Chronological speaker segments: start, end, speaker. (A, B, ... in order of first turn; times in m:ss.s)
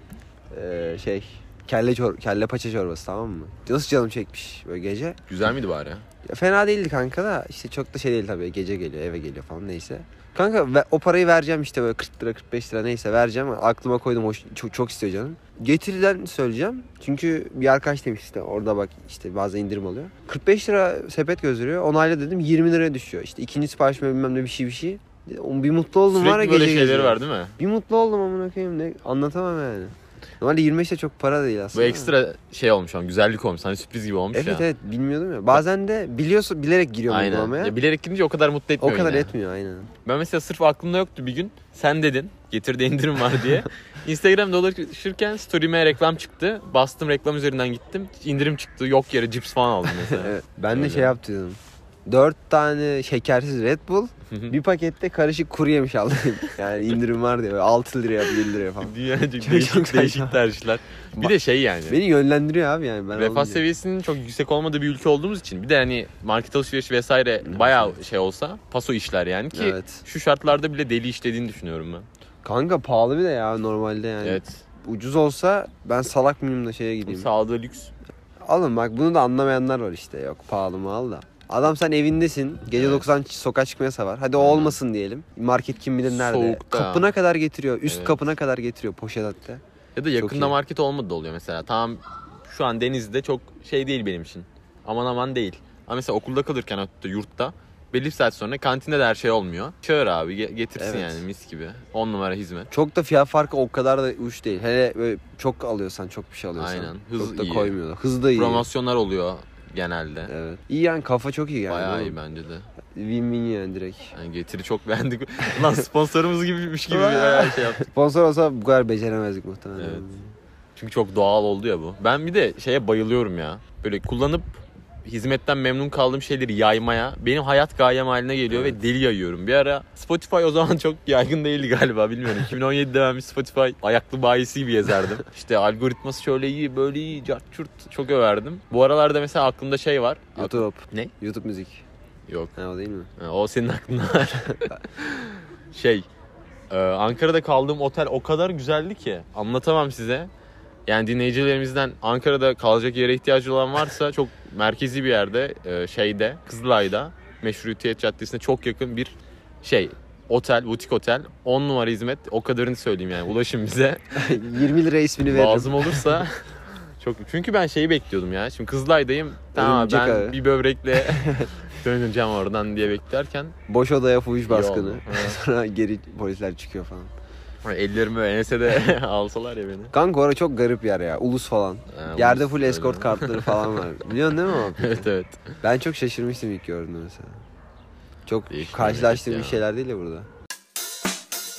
0:00.5-0:05.2 A
0:05.3-0:06.0 B
0:06.2-0:32.2 A
0:26.1-0:27.6 B
0:31.7-0:34.7 B
0:34.3-0:37.8 A
0:37.1-0:39.3 B
0:38.8-0:39.9 A
0:40.0-0:51.2 B
0:50.0-1:00.4 A
0:54.3-0:54.6 B
0:58.8-1:02.0 B
1:01.9-1:03.6 A
1:03.1-1:12.1 B
1:07.4-1:08.0 A
1:09.5-1:10.0 A
1:12.4-1:17.3 A
1:14.2-1:14.6 B
1:17.1-1:17.9 B
1:18.4-1:29.6 A
1:22.7-1:23.1 B
1:24.4-1:24.8 B
1:26.0-1:27.1 B
1:27.9-1:28.2 B
1:30.0-1:42.7 B
1:30.2-1:30.6 A
1:40.8-1:41.2 A
1:42.7-1:48.7 A
1:46.6-1:47.8 B
1:48.3-1:50.3 B
1:50.3-1:52.2 A
1:51.7-1:52.7 B
1:52.9-1:54.1 A
1:54.1-1:57.9 B
1:56.9-2:00.2 A
1:59.8-2:00.1 B
2:00.8-2:21.1 B
2:08.5-2:08.8 A
2:20.4-2:21.8 A
2:22.3-2:22.6 B
2:22.6-2:23.1 A
2:23.2-2:26.1 B
2:26.7-2:30.3 B
2:30.9-2:44.4 B
2:44.2-2:46.2 A
2:45.3-2:46.4 B
2:47.0-2:53.6 B
2:49.6-2:50.4 A
2:51.0-2:51.5 A
2:53.7-2:57.1 A
2:54.5-2:55.4 B
2:57.6-2:59.9 B
2:59.9-3:05.1 A
3:01.9-3:03.9 B
3:04.6-3:05.6 B
3:05.6-3:07.4 A
3:08.3-3:10.3 A
3:08.5-3:09.6 B